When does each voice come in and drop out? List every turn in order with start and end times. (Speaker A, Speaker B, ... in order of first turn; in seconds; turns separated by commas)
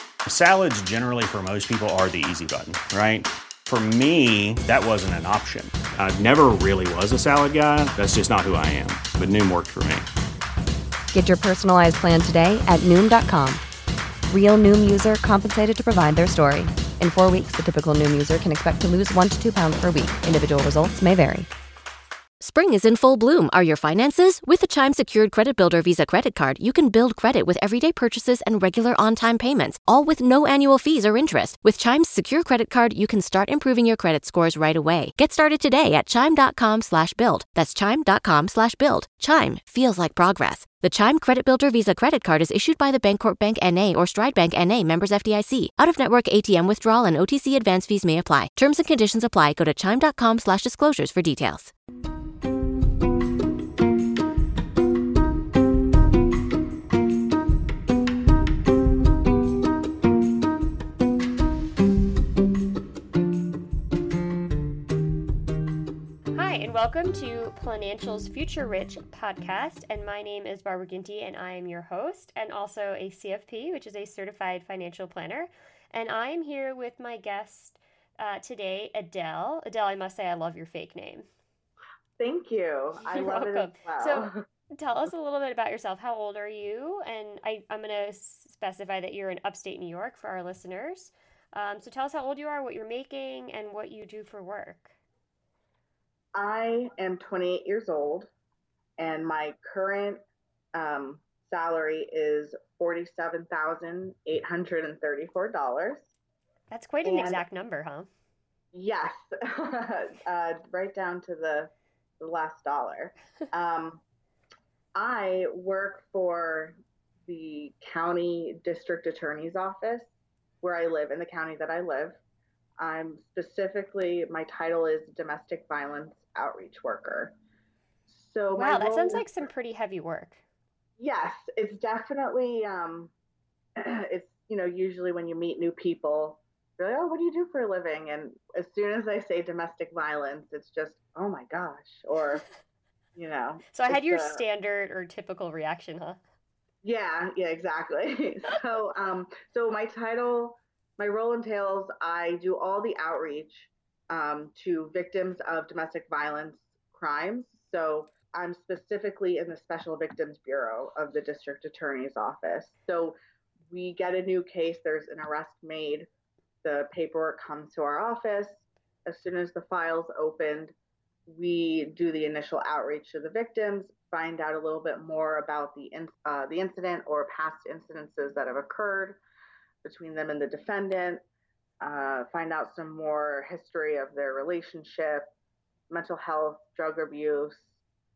Speaker A: 0.3-10.1, Speaker B: 11.1-13.6, Speaker B: 14.3-21.5, Speaker C: 22.4-51.7, Speaker D: 66.3-81.3, Speaker E: 82.2-84.4, Speaker D: 83.0-95.0, Speaker E: 96.3-98.3, Speaker E: 99.0-100.2, Speaker E: 100.7-106.1, Speaker D: 106.7-108.1, Speaker E: 107.0-107.4, Speaker E: 108.7-114.0, Speaker E: 115.0-120.1, Speaker E: 120.6-122.2, Speaker E: 122.8-127.3, Speaker E: 128.1-129.4, Speaker D: 128.5-130.4, Speaker E: 131.0-133.1, Speaker E: 133.8-142.4, Speaker E: 143.2-144.4, Speaker D: 143.7-146.2, Speaker E: 146.8-163.2, Speaker E: 163.7-166.1, Speaker E: 166.6-170.7, Speaker E: 171.3-179.2, Speaker E: 179.8-181.2, Speaker E: 181.8-185.3, Speaker E: 185.9-187.7